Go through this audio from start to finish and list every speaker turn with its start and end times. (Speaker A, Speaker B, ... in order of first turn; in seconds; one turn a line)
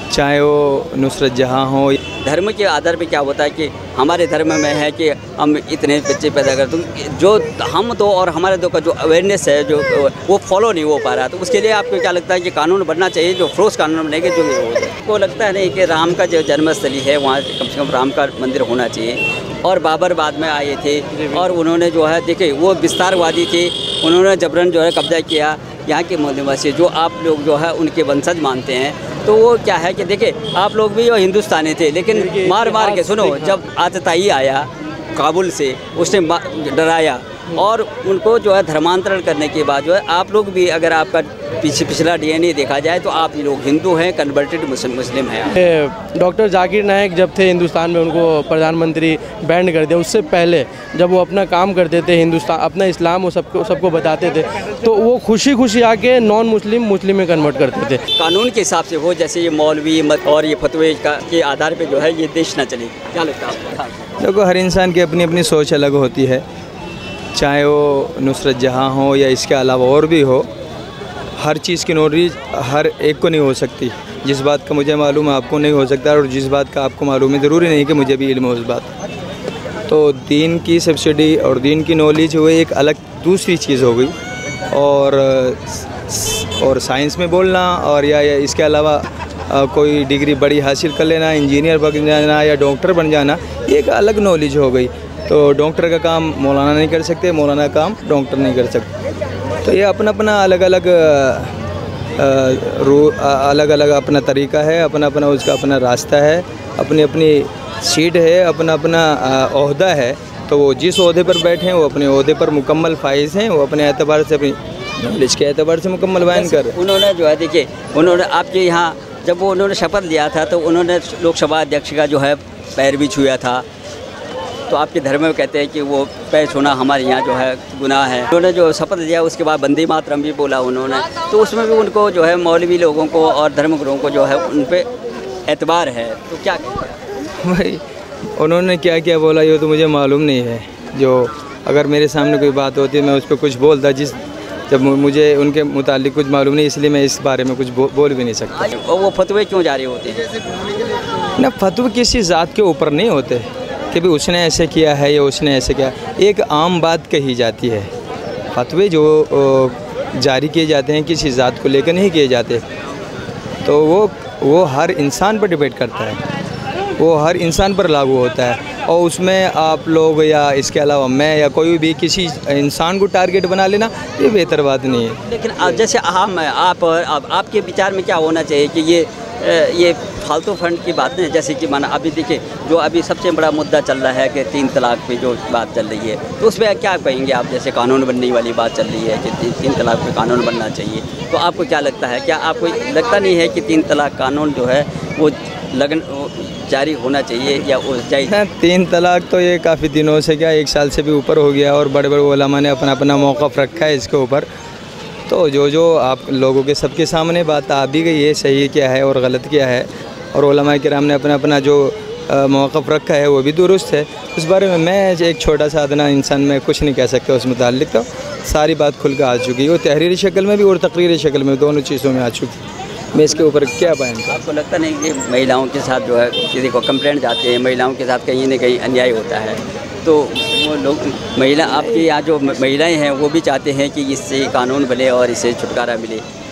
Speaker A: 0.1-2.0
Speaker B: 2.2-45.6
Speaker C: 32.1-33.5
Speaker C: 45.6-58.0
Speaker B: 58.1-64.1
Speaker A: 64.2-66.4
Speaker A: 67.3-70.5
Speaker A: 71.4-78.9
Speaker A: 79.9-84.1
Speaker A: 84.7-98.9
Speaker A: 99.6-101.5
Speaker A: 102.2-116.8
Speaker B: 116.3-123.6
Speaker B: 124.7-134.9
Speaker B: 135.5-137.0
Speaker A: 137.4-137.8
Speaker A: 138.3-144.2
Speaker A: 144.7-148.7
Speaker B: 148.5-150.3
Speaker A: 151.4-157.9
Speaker A: 158.5-162.6
Speaker A: 163.6-166.2
Speaker A: 167.0-175.2
Speaker B: 175.3-198.3
Speaker A: 198.3-204.5
Speaker A: 205.3-222.6
Speaker A: 223.1-224.4
Speaker B: 223.2-236.2
Speaker A: 231.6-232.1